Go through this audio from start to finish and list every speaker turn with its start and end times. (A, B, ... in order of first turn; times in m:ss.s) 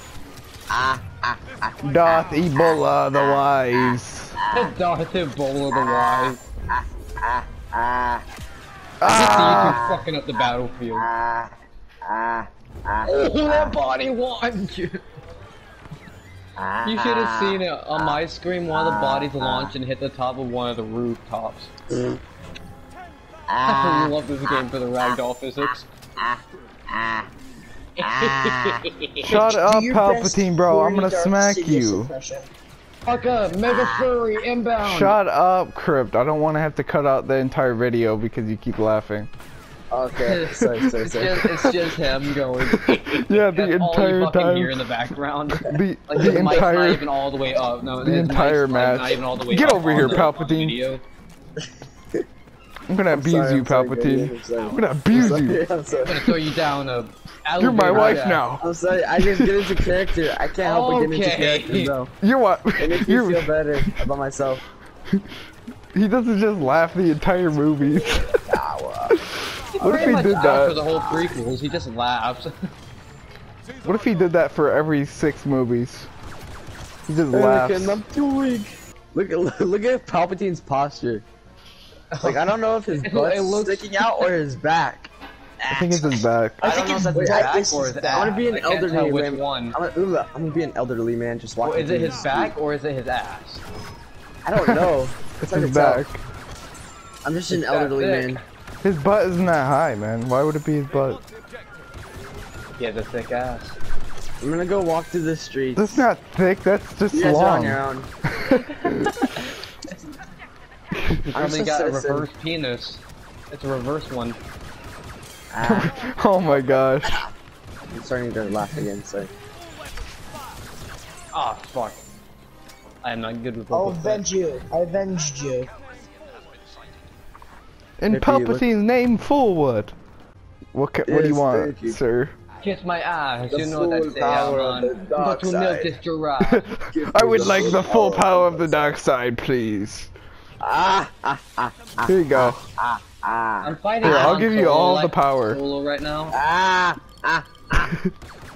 0:00.7-0:04.7 A
0:01.8-0:04.4 B
0:04.5-0:06.4 C
0:05.7-0:08.2 A
0:09.0-0:09.8 B
0:09.0-0:11.1 C
0:09.4-0:10.0 A
0:10.9-0:13.8 A
0:13.0-0:15.0 C
0:16.6-0:18.2 A
0:16.8-0:21.7 C
0:18.7-0:19.7 A
0:23.5-0:25.2 A
0:23.6-0:25.9 C
0:25.7-0:27.3 A
0:28.0-0:29.4 C
0:28.0-0:28.8 A
0:29.2-0:32.1 B
0:29.2-0:32.5 D
0:33.0-0:35.2 C
0:33.7-0:34.1 A
0:34.8-0:39.3 B
0:39.9-0:41.6 A
0:40.2-0:51.0 C
0:42.6-0:44.9 B
0:45.5-0:47.1 B
0:48.0-0:50.8 B
0:52.9-0:55.6 B
0:53.1-0:56.3 A
0:56.0-0:58.4 C
0:57.6-0:58.7 B
0:57.9-1:02.1 A
0:59.2-0:59.7 B
1:00.6-1:01.9 C
1:02.2-1:04.1 B
1:02.8-1:04.6 A
1:05.9-1:08.6 B
1:08.3-1:09.2 A
1:09.1-1:10.8 B
1:09.7-1:12.7 C
1:10.9-1:11.4 A
1:13.8-1:16.1 B
1:17.1-1:18.0 B
1:17.3-1:21.2 A
1:22.1-1:22.4 C
1:22.2-1:25.1 A
1:23.0-1:24.2 C
1:25.6-1:27.5 A
1:25.7-1:26.6 B
1:26.6-1:29.8 C
1:26.6-1:28.4 D
1:28.1-1:32.5 A
1:31.6-1:33.6 C
1:34.4-1:36.1 A
1:34.6-1:34.9 B
1:35.4-1:36.2 B
1:37.2-1:38.4 A
1:37.5-1:38.4 C
1:38.8-1:41.2 B
1:42.8-1:43.8 C
1:44.4-1:46.1 A
1:45.8-1:49.3 B
1:47.1-1:48.1 A
1:48.8-1:49.5 C
1:50.9-1:51.2 B
1:51.2-1:54.4 C
1:51.3-1:52.3 A
1:55.5-1:57.3 A
1:55.6-1:57.2 B
1:57.9-1:59.3 A
2:01.3-2:02.0 C
2:03.0-2:04.2 C
2:03.7-2:05.7 D
2:08.0-2:10.0 B
2:08.1-2:08.6 A
2:10.7-2:12.3 B
2:11.1-2:12.0 A
2:12.6-2:16.7 C
2:13.5-2:16.0 A
2:16.4-2:20.1 B
2:16.9-2:18.9 A
2:20.6-2:24.4 A
2:22.0-2:22.6 B
2:23.6-2:26.4 C
2:24.0-2:25.6 B
2:26.3-2:28.0 A
2:27.7-2:28.1 B